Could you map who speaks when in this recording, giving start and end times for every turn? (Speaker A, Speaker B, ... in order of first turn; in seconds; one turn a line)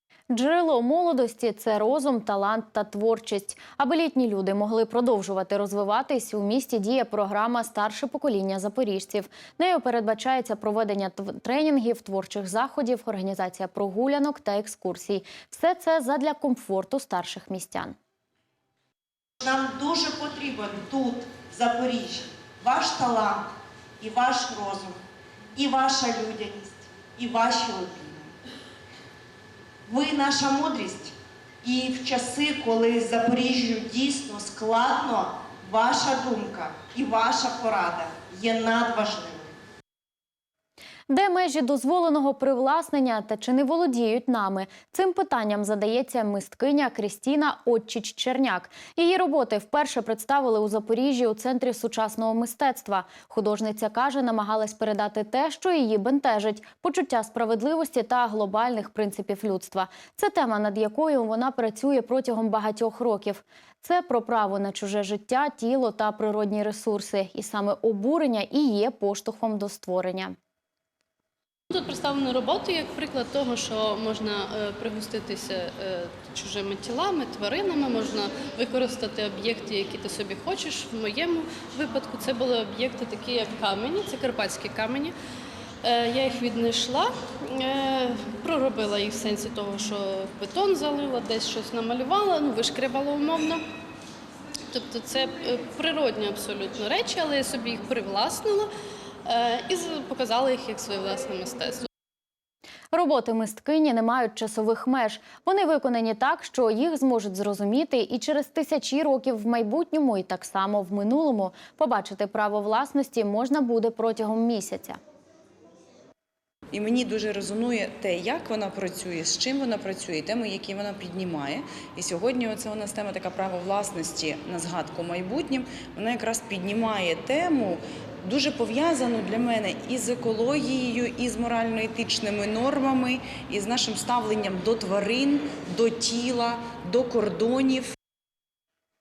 Speaker A: 0.3-18.0
Speaker B: 19.4-25.0
Speaker B: 25.5-28.3
Speaker B: 29.9-39.5
Speaker A: 41.1-70.4
Speaker C: 71.7-85.1
Speaker C: 85.8-93.6
Speaker C: 94.7-98.7
Speaker C: 99.2-101.9
Speaker A: 102.9-115.0
Speaker D: 116.7-137.9